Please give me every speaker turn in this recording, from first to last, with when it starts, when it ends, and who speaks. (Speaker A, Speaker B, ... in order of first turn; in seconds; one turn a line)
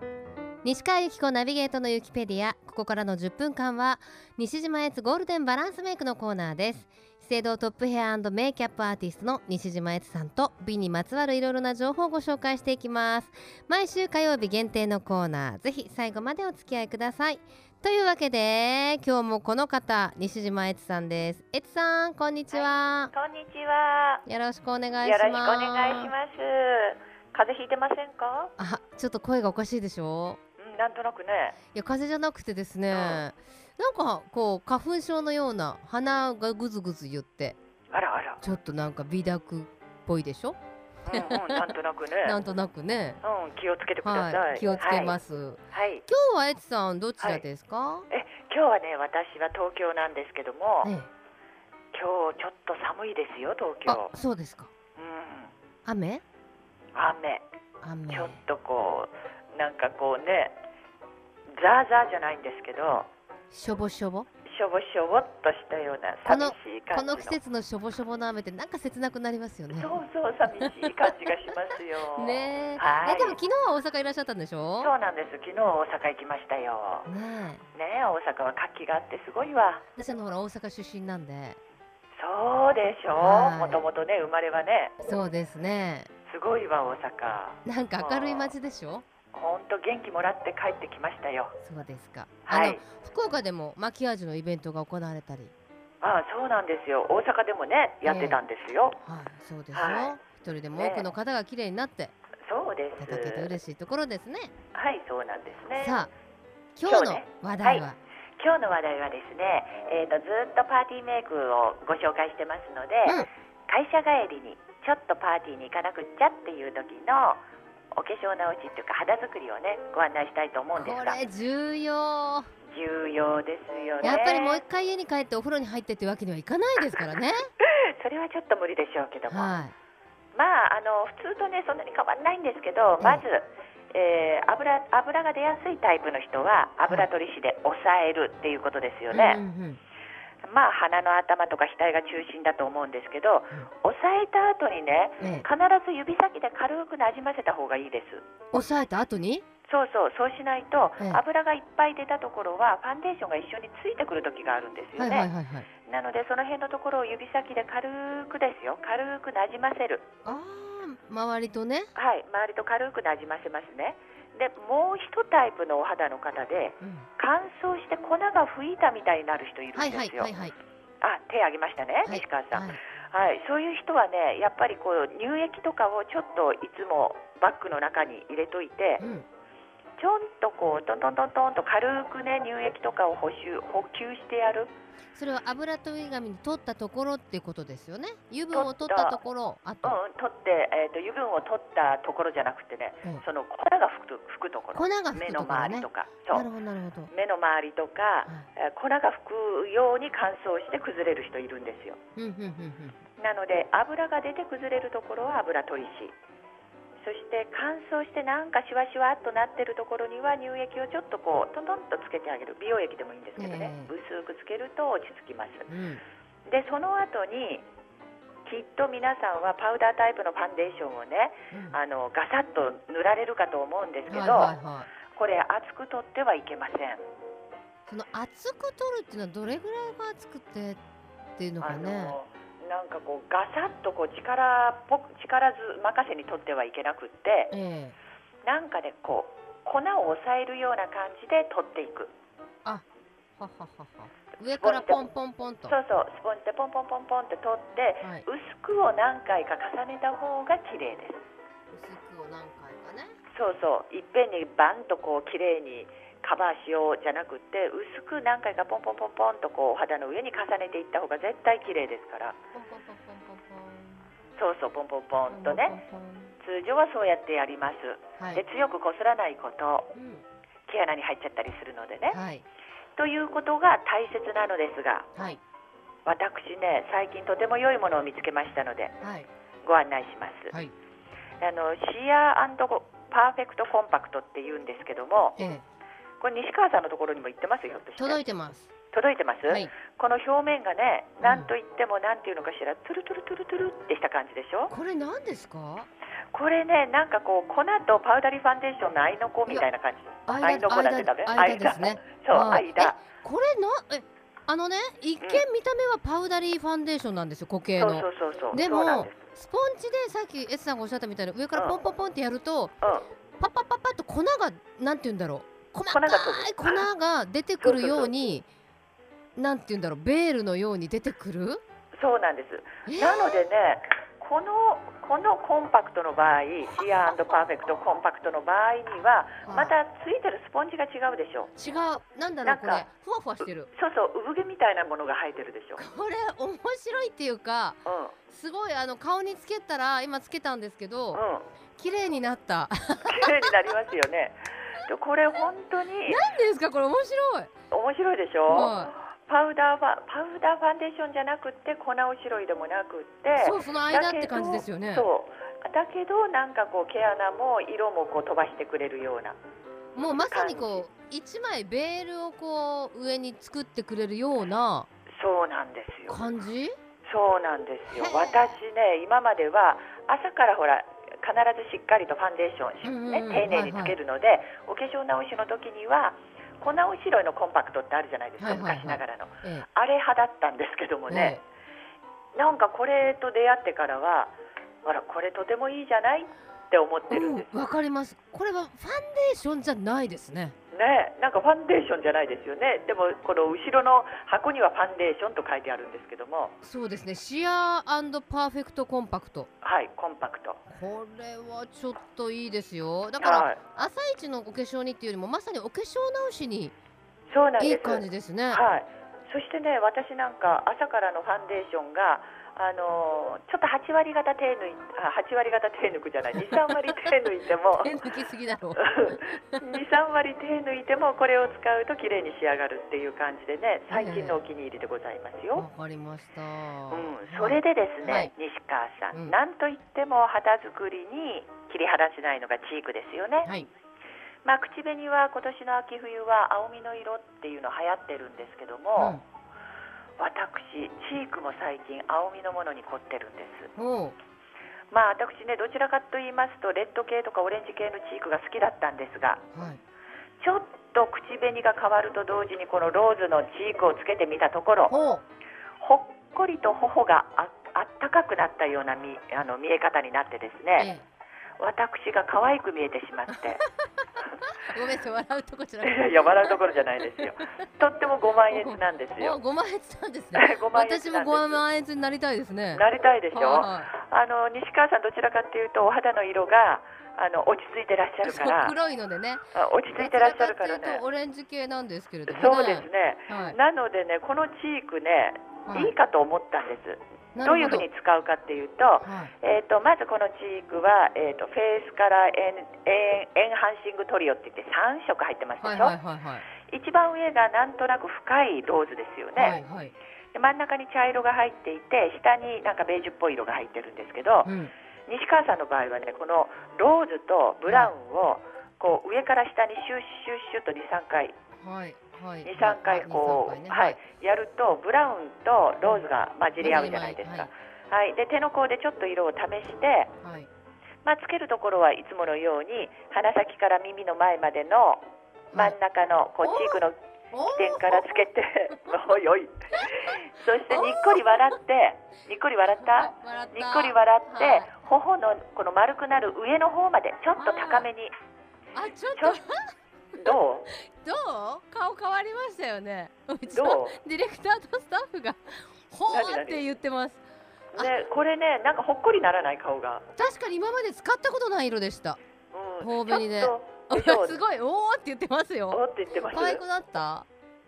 Speaker A: 0.6-23.1
Speaker B: 22.5-24.2
Speaker A: 24.2-26.1
Speaker B: 25.0-28.5
Speaker A: 28.6-30.4
Speaker B: 30.6-31.6
Speaker A: 31.7-37.6
Speaker B: 32.9-33.2
Speaker B: 37.9-38.4
Speaker A: 38.4-40.6
Speaker B: 41.1-42.4
Speaker A: 41.1-43.2
Speaker B: 43.2-45.1
Speaker A: 44.0-48.1
Speaker B: 45.7-46.0
Speaker B: 48.1-50.9
Speaker A: 50.8-51.1
Speaker B: 51.9-54.1
Speaker A: 53.9-54.7
Speaker B: 55.0-55.5
Speaker A: 55.9-56.2
Speaker B: 56.9-57.4
Speaker A: 57.8-58.4
Speaker B: 58.1-60.6
Speaker B: 61.5-63.1
Speaker A: 63.5-64.3
Speaker B: 64.5-67.4
Speaker A: 66.2-70.0
Speaker B: 69.7-73.4
Speaker A: 72.1-74.9
Speaker B: 74.8-77.1
Speaker A: 77.0-77.6
Speaker B: 77.7-79.8
Speaker A: 80.0-81.6
Speaker B: 82.2-84.9
Speaker A: 83.2-83.8
Speaker A: 85.0-86.1
Speaker B: 86.3-88.5
Speaker A: 87.6-89.0
Speaker B: 89.3-91.5
Speaker A: 91.6-95.5
Speaker B: 92.5-92.8
Speaker B: 96.0-99.0
Speaker A: 98.0-98.4
Speaker A: 99.0-102.1
Speaker B: 99.7-100.2
Speaker B: 100.7-101.1
Speaker B: 102.5-103.6
Speaker A: 103.0-104.5
Speaker B: 104.7-106.0
Speaker A: 105.7-106.1
Speaker A: 106.8-108.0
Speaker B: 106.8-107.9
Speaker B: 108.4-117.4
Speaker B: 117.9-121.2
Speaker A: 120.7-122.5
Speaker B: 122.7-124.6
Speaker A: 124.0-127.5
Speaker B: 127.6-129.6
Speaker A: 129.3-129.7
Speaker B: 130.3-139.4
Speaker A: 139.1-139.8
Speaker B: 140.4-148.3
Speaker A: 145.2-145.5
Speaker A: 148.5-149.4
Speaker B: 149.7-155.3
Speaker A: 155.0-155.7
Speaker B: 155.8-160.0
Speaker A: 160.2-161.9
Speaker B: 161.9-170.3
Speaker A: 166.8-167.1
Speaker A: 169.7-170.5
Speaker B: 171.0-179.0
Speaker A: 172.0-172.8
Speaker A: 179.0-179.2
Speaker B: 180.0-184.7
Speaker A: 185.1-190.0
Speaker B: 188.5-189.2
Speaker B: 189.8-196.5
Speaker A: 194.7-197.1
Speaker B: 197.1-202.0
Speaker A: 202.2-203.0
Speaker B: 203.2-206.2
Speaker B: 207.0-215.7
Speaker A: 213.4-213.9
Speaker A: 215.7-216.0
Speaker B: 216.4-217.7
Speaker B: 218.4-224.5
Speaker A: 221.5-221.8
Speaker A: 224.1-224.9
Speaker B: 225.1-227.0
Speaker A: 227.9-230.8
Speaker A: 231.4-232.2
Speaker B: 231.6-237.5
Speaker A: 237.5-237.9
Speaker B: 238.4-242.1
Speaker A: 243.4-245.8
Speaker B: 244.5-245.1
Speaker B: 245.7-251.2
Speaker A: 251.7-253.1
Speaker B: 253.3-262.4
Speaker A: 262.5-264.0
Speaker B: 264.3-265.8
Speaker A: 265.3-266.3
Speaker B: 266.4-269.9
Speaker A: 269.9-270.2
Speaker B: 270.7-272.2
Speaker A: 272.1-272.4
Speaker B: 272.9-275.1
Speaker B: 276.1-278.9
Speaker A: 279.0-279.3
Speaker B: 279.6-280.5
Speaker B: 281.4-285.4
Speaker A: 285.4-285.6
Speaker B: 286.2-288.2
Speaker A: 288.0-288.7
Speaker B: 288.9-294.7
Speaker A: 289.5-289.7
Speaker A: 291.2-291.5
Speaker A: 294.7-295.9
Speaker B: 296.3-303.0
Speaker A: 300.3-312.7
Speaker B: 307.8-309.2
Speaker B: 312.8-313.1
Speaker A: 313.4-318.5
Speaker B: 315.9-316.8
Speaker B: 317.6-318.1
Speaker A: 319.4-321.6
Speaker B: 321.9-331.5
Speaker A: 322.9-323.4
Speaker A: 329.4-329.7
Speaker A: 331.6-333.7
Speaker B: 332.4-332.9
Speaker B: 333.7-335.9
Speaker A: 335.8-341.2
Speaker B: 337.9-338.1
Speaker B: 341.1-341.5
Speaker A: 341.8-343.5
Speaker B: 343.0-346.2
Speaker A: 346.1-347.5
Speaker B: 347.7-359.4
Speaker A: 348.5-348.9
Speaker A: 353.4-355.1
Speaker A: 359.9-364.9
Speaker B: 360.2-360.8
Speaker B: 365.1-366.2
Speaker A: 366.1-366.7
Speaker B: 367.1-381.4
Speaker A: 367.9-368.5
Speaker A: 372.8-374.0
Speaker A: 378.4-379.6
Speaker A: 381.1-381.4
Speaker B: 382.3-387.5
Speaker A: 387.1-390.5
Speaker B: 390.7-396.6
Speaker A: 396.6-399.5
Speaker B: 399.6-400.6
Speaker A: 400.7-406.7
Speaker B: 403.2-403.6
Speaker B: 407.3-417.9
Speaker A: 407.6-408.6
Speaker A: 416.3-416.7
Speaker A: 417.7-419.6
Speaker B: 418.8-425.6
Speaker A: 423.9-424.4
Speaker A: 425.5-428.3
Speaker B: 426.9-433.5
Speaker A: 429.1-429.4
Speaker B: 434.4-439.2
Speaker A: 438.9-439.2
Speaker B: 440.2-443.7
Speaker A: 443.8-444.1
Speaker B: 444.9-449.4
Speaker A: 449.5-449.8
Speaker B: 450.4-454.9
Speaker A: 454.9-455.2
Speaker B: 455.8-460.9
Speaker A: 460.8-461.0
Speaker B: 461.6-463.6
Speaker A: 463.3-467.5
Speaker B: 465.8-469.4
Speaker A: 468.5-473.9
Speaker B: 470.3-471.6
Speaker B: 472.7-478.8
Speaker A: 478.2-483.6
Speaker B: 479.5-481.0
Speaker B: 482.3-495.9
Speaker A: 485.7-485.9
Speaker A: 487.3-487.9
Speaker A: 489.0-489.3
Speaker A: 495.6-496.4
Speaker B: 496.6-499.6
Speaker A: 499.4-499.9
Speaker B: 500.3-504.5
Speaker A: 504.4-504.7
Speaker B: 505.1-511.4
Speaker A: 507.6-507.9
Speaker A: 511.6-514.0
Speaker B: 512.4-520.1
Speaker A: 516.6-517.5
Speaker A: 520.2-520.5
Speaker B: 521.0-538.1
Speaker A: 526.4-528.9
Speaker A: 530.7-531.6
Speaker A: 532.8-534.8
Speaker A: 537.4-537.9
Speaker A: 538.7-547.2
Speaker B: 540.1-540.7
Speaker B: 543.5-544.0
Speaker B: 546.1-546.6
Speaker B: 547.7-550.0
Speaker A: 550.1-552.2
Speaker B: 552.5-554.4
Speaker A: 552.8-557.3
Speaker B: 555.7-556.6